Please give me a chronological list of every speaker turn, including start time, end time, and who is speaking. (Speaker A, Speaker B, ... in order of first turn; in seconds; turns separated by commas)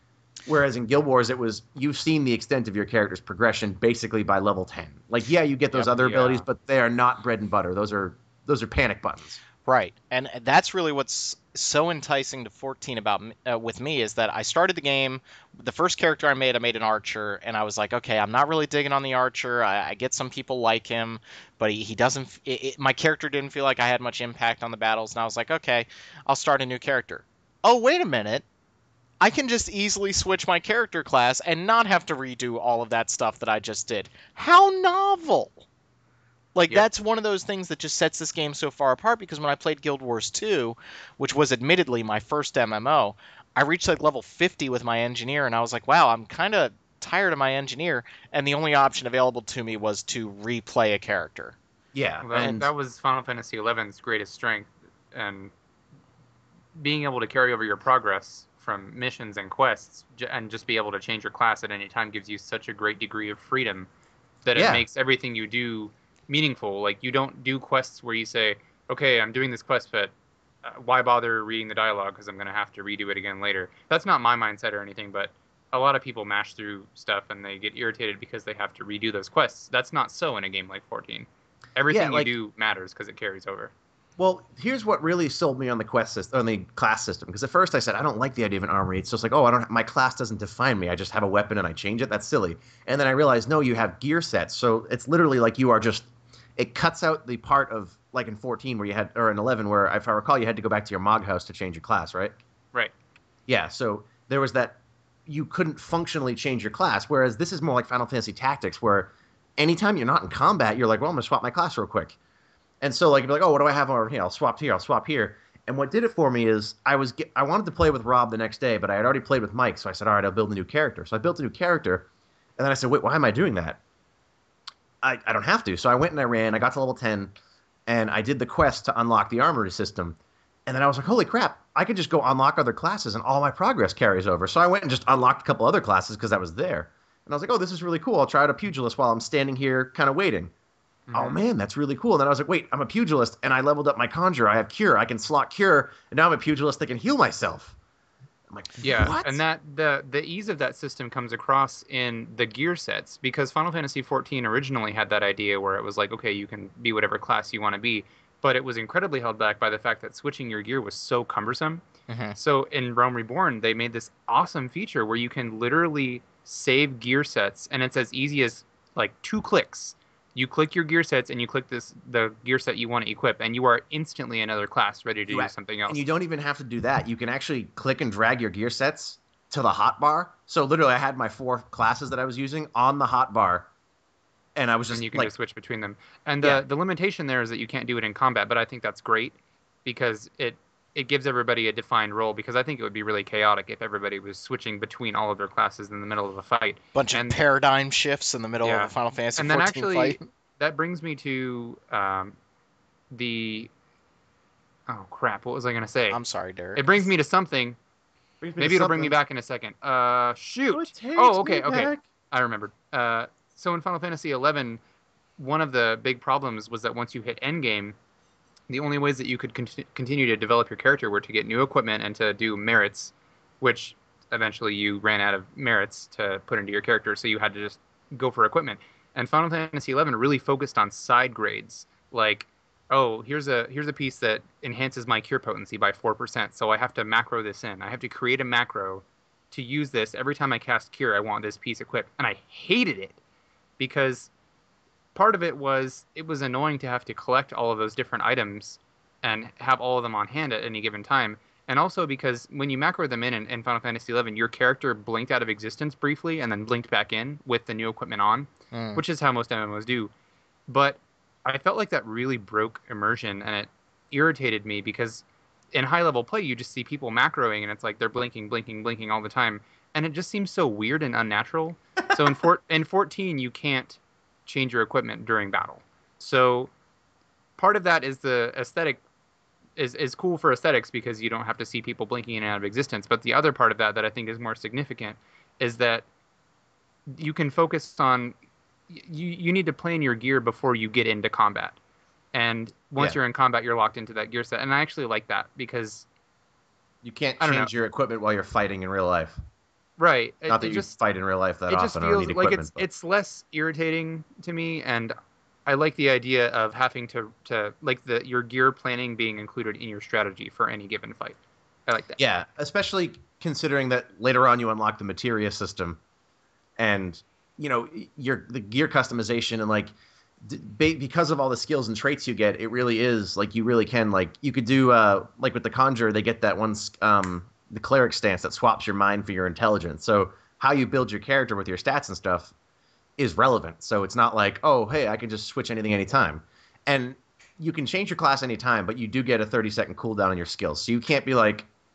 Speaker A: 0.5-9.4, Speaker B: 5.8-6.5, Speaker C: 9.7-28.4, Speaker C: 29.2-35.6, Speaker C: 36.5-51.6, Speaker A: 51.9-52.7, Speaker B: 52.2-55.5, Speaker C: 52.4-52.6, Speaker B: 56.8-63.9, Speaker B: 64.5-70.1, Speaker A: 64.5-64.8, Speaker B: 70.6-83.7, Speaker A: 81.9-82.3, Speaker A: 84.2-102.3, Speaker A: 103.5-112.2, Speaker A: 112.8-122.1, Speaker A: 122.6-123.8, Speaker A: 125.0-127.4, Speaker A: 127.9-140.5, Speaker B: 141.1-141.4, Speaker A: 141.1-147.8, Speaker A: 148.5-149.4, Speaker B: 148.8-161.8, Speaker C: 162.1-162.4, Speaker B: 162.4-176.0, Speaker A: 175.3-183.7, Speaker A: 184.6-185.3, Speaker B: 184.9-197.4, Speaker C: 196.9-200.3, Speaker B: 198.6-202.3, Speaker B: 203.1-203.7, Speaker B: 204.9-206.2, Speaker C: 206.1-207.0, Speaker B: 206.8-207.8, Speaker A: 208.4-209.2, Speaker B: 208.6-214.8, Speaker A: 210.7-212.0, Speaker B: 215.4-217.9, Speaker B: 218.7-243.2, Speaker B: 243.8-244.3, Speaker B: 245.2-260.1, Speaker C: 258.7-259.0, Speaker B: 260.7-276.7, Speaker B: 277.6-279.0, Speaker B: 279.8-286.1, Speaker B: 287.1-288.3, Speaker B: 288.9-291.8, Speaker B: 292.3-296.1, Speaker A: 297.0-299.4, Speaker B: 297.4-297.7, Speaker B: 300.0-300.9, Speaker A: 300.5-302.9, Speaker B: 301.7-305.1, Speaker B: 305.7-312.2, Speaker A: 312.2-316.0, Speaker A: 316.8-332.5, Speaker A: 333.2-341.7